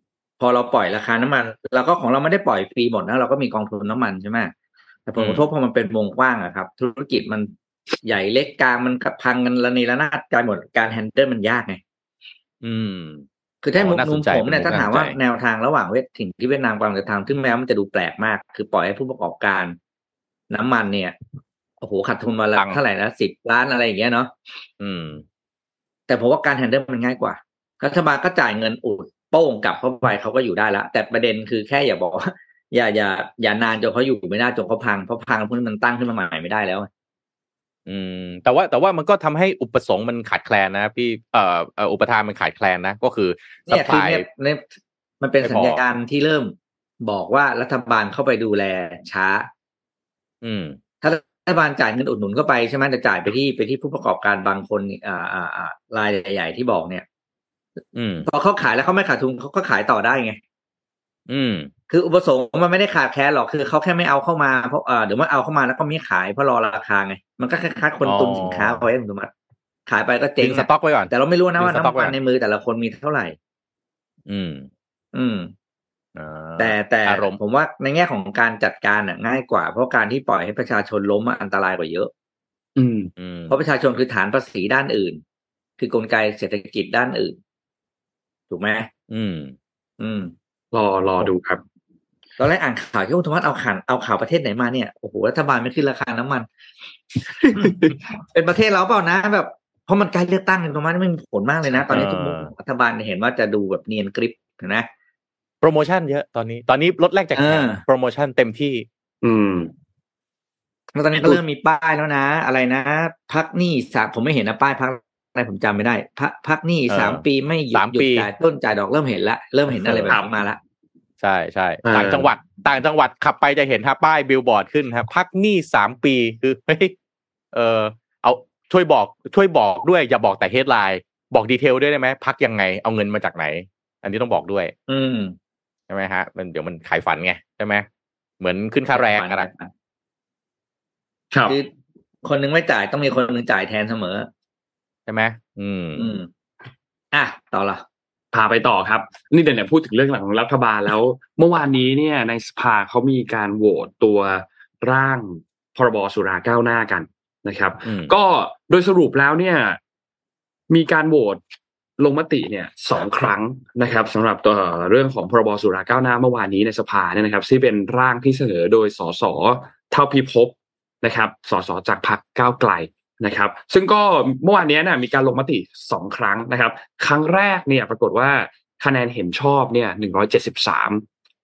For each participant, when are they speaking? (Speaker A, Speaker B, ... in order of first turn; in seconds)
Speaker A: 0.4-4.5, 5.1-7.5, 8.0-11.8, 13.6-19.8, 20.5-21.1, 21.8-24.3, 26.1-36.9, 43.7-44.7, 45.2-49.5, 51.0-57.0, 58.2-60.4, 61.9-69.3, 69.9-73.3, 75.1-75.5, 76.6-82.1, 83.5-85.2, 85.8-87.4, 88.5-88.9, 90.0-90.3, 92.4-96.5, 98.3-104.9, 107.4-107.8, 110.9-120.6, 134.9-135.3, 138.9-139.7, 142.2-144.3, 145.9-146.3, 147.1-147.8
Speaker B: 5.2-5.5, 12.6-13.2, 13.8-15.2, 24.8-25.2, 37.9-44.2, 45.4-45.8, 50.4-50.8, 57.9-58.3, 61.3-61.7, 68.0-68.9, 70.4-72.1, 74.3-74.7, 76.2-77.3, 83.2-83.6, 89.1-89.5, 101.7-102.5, 105.6-108.9, 116.9-118.3, 119.7-120.1, 121.2-126.9, 127.5-134.7, 135.9-137.9, 138.4-139.5, 145.1-146.2, 157.9-158.1
Speaker C: 82.8-83.1, 90.7-91.6, 97.4-98.0, 109.2-109.7, 121.8-122.3, 148.3-159.8, 160.7-161.4, 162.0-181.0